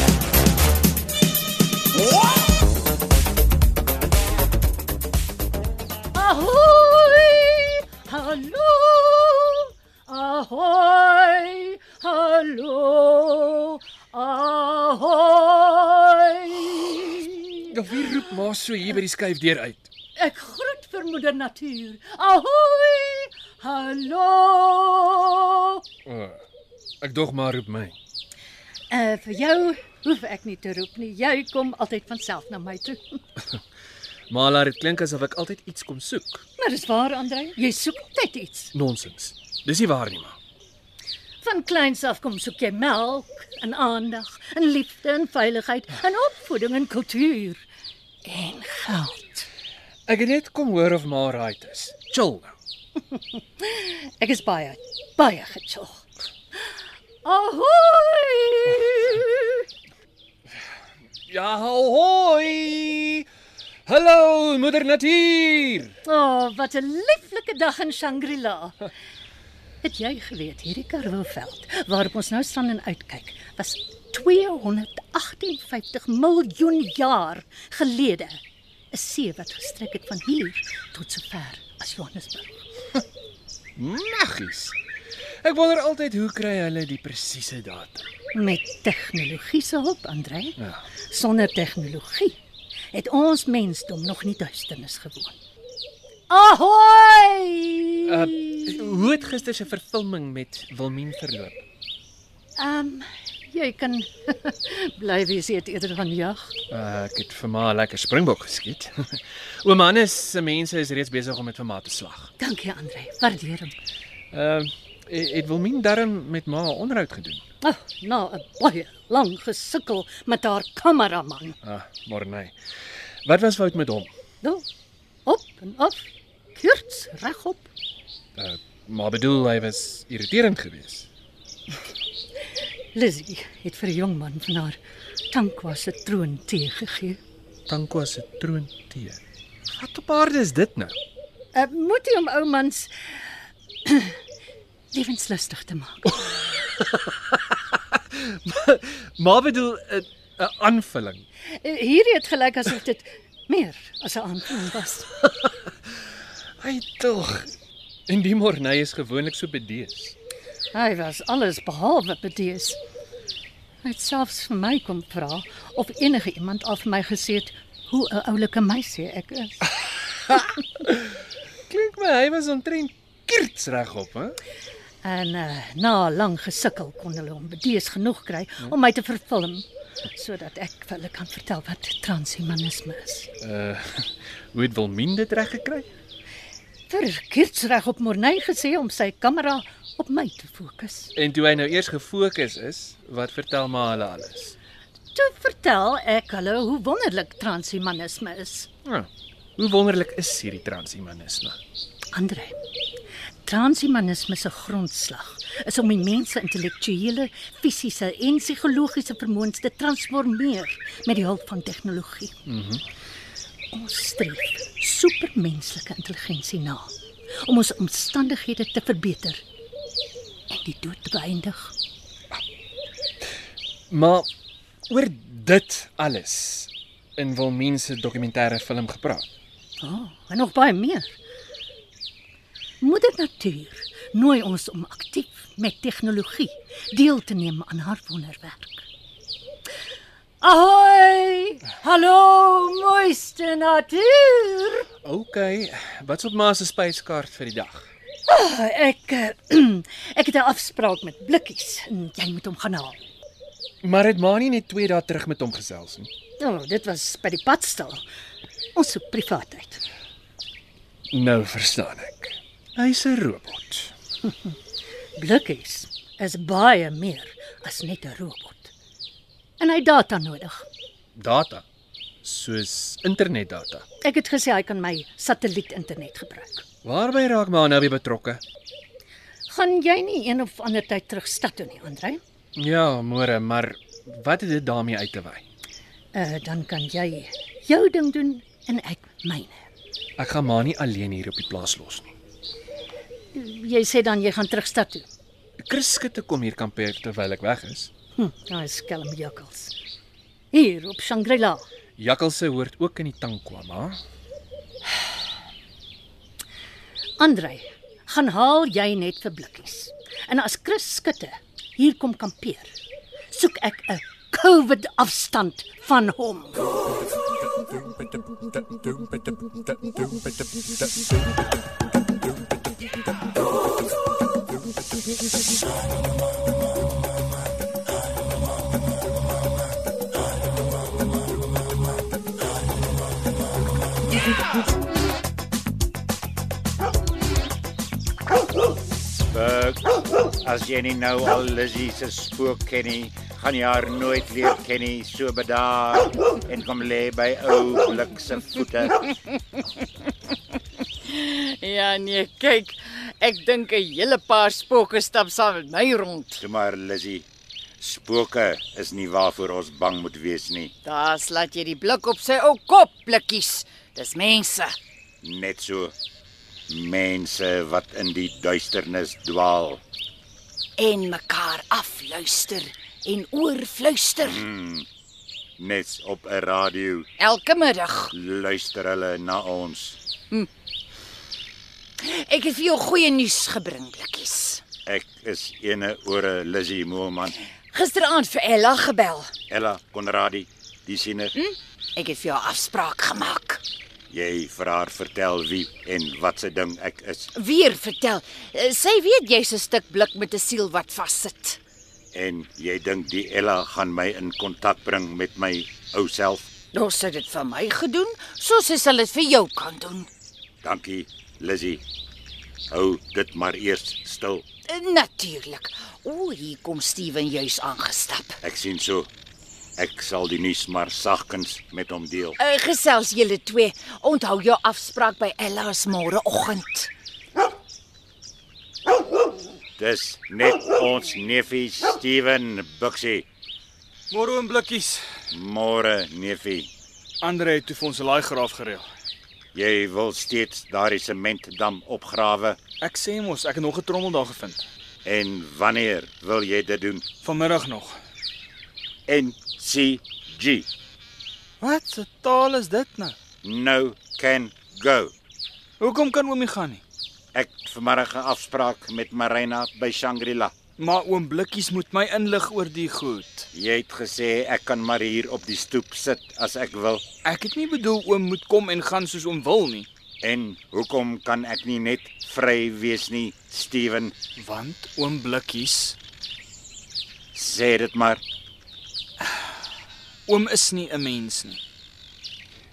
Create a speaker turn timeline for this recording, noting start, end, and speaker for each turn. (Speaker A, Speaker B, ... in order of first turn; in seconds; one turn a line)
Speaker A: 6.1-17.7
Speaker B: 17.7-19.9
Speaker A: 20.2-25.8
Speaker B: 26.1-26.4
Speaker B: 27.0-28.0
Speaker A: 28.9-33.2
Speaker B: 34.3-36.4
Speaker A: 36.6-38.7
Speaker B: 38.7-40.4
Speaker A: 41.4-47.6
Speaker A: 48.2-49.5
Speaker B: 50.1-52.5
Speaker A: 53.1-56.0
Speaker A: 57.2-59.6
Speaker B: 61.3-63.3
Speaker B: 63.9-65.9
Speaker A: 66.0-68.8
Speaker A: 69.8-82.7
Speaker B: 83.8-84.8
Speaker B: 85.4-88.1
Speaker A: 88.3-90.6
Speaker A: 91.1-92.4
Speaker A: 92.9-95.4
Speaker A: 96.3-98.8
Speaker B: 98.1-101.6
Speaker A: 102.6-106.5
Speaker B: 106.7-112.3
Speaker A: 112.4-113.7
Speaker B: 114.3-117.4
Speaker A: 117.6-121.6
Speaker B: 121.6-122.6
Speaker B: 123.2-124.1
Speaker A: 125.2-127.7
Speaker B: 128.4-131.1
Speaker A: 132.9-134.8
Speaker A: 135.3-137.2
Speaker B: 137.7-139.2
Speaker B: 139.7-140.9
Speaker A: 141.5-142.9
Speaker A: 143.9-144.2
Speaker A: 144.9-146.2
Speaker B: 146.7-151.2
Speaker A: 151.5-155.1
Speaker B: 156.6-157.5
Speaker B: 158.1-160.2
Speaker A: 160.7-162.8
Speaker A: 163.8-169.6
Speaker B: 170.3-171.2
Speaker B: 171.7-174.4
Speaker A: 175.0-183.3
Speaker B: 183.4-185.9
Speaker A: 186.9-191.1
Speaker B: 191.2-194.6
Speaker A: 195.2-198.7
Speaker B: 198.8-201.6
Speaker A: 202.1-202.6
Speaker A: 203.4-212.3
Speaker B: 212.5-212.8
Speaker A: 213.7-216.9
Speaker A: 217.4-219.4
Speaker A: 220.5-221.7
Speaker B: 223.9-224.3
Speaker B: 224.9-229.3
Speaker A: 229.8-231.2
Speaker A: 232.8-238.8
Speaker A: 240.4-244.9
Speaker B: 245.0-247.9
Speaker A: 248.3-253.0
Speaker B: 253.8-256.1
Speaker A: 256.4-258.0
Speaker A: 258.8-259.8
Speaker B: 261.1-263.9
Speaker A: 265.2-268.7
Speaker A: 269.6-270.7
Speaker B: 271.2-271.6
Speaker B: 272.2-273.8
Speaker A: 274.0-276.6
Speaker B: 276.8-278.4
Speaker A: 279.5-282.2
Speaker B: 282.6-285.4
Speaker A: 286.1-289.7
Speaker B: 290.2-292.1
Speaker A: 293.3-295.1
Speaker B: 295.6-297.9
Speaker A: 298.2-299.7
Speaker A: 300.5-301.6
Speaker B: 302.0-304.0
Speaker A: 307.2-312.7
Speaker A: 313.3-316.7
Speaker C: 339.3-349.0
Speaker D: 351.1-356.4
Speaker C: 356.4-357.3
Speaker C: 357.8-360.7
Speaker D: 360.9-364.8
Speaker C: 365.2-365.9
Speaker C: 366.7-369.8
Speaker D: 370.8-374.4
Speaker C: 374.2-374.9
Speaker C: 375.6-377.1
Speaker D: 377.2-378.1
Speaker C: 378.1-380.0
Speaker D: 382.0-384.6
Speaker C: 384.9-387.4
Speaker D: 387.7-389.3
Speaker C: 389.5-391.4
Speaker D: 391.4-393.6
Speaker C: 394.1-397.3
Speaker D: 397.4-401.6
Speaker C: 402.1-406.5
Speaker D: 406.7-410.1
Speaker C: 410.6-411.8
Speaker C: 412.7-414.5
Speaker D: 414.7-418.4
Speaker C: 418.4-419.1
Speaker C: 419.8-422.4
Speaker D: 422.4-426.9
Speaker C: 429.8-433.3
Speaker E: 434.1-435.1
Speaker C: 435.3-436.7
Speaker E: 437.2-438.9
Speaker C: 439.5-442.6
Speaker E: 442.8-444.7
Speaker C: 445.1-447.1
Speaker E: 447.2-448.0
Speaker C: 449.1-450.7
Speaker E: 451.6-453.2
Speaker C: 453.4-455.1
Speaker E: 455.8-456.8
Speaker C: 457.3-460.5
Speaker E: 460.8-463.5
Speaker C: 463.5-467.0
Speaker E: 467.2-469.9
Speaker C: 470.2-474.1
Speaker E: 474.4-476.0
Speaker C: 477.3-478.2
Speaker E: 480.3-481.6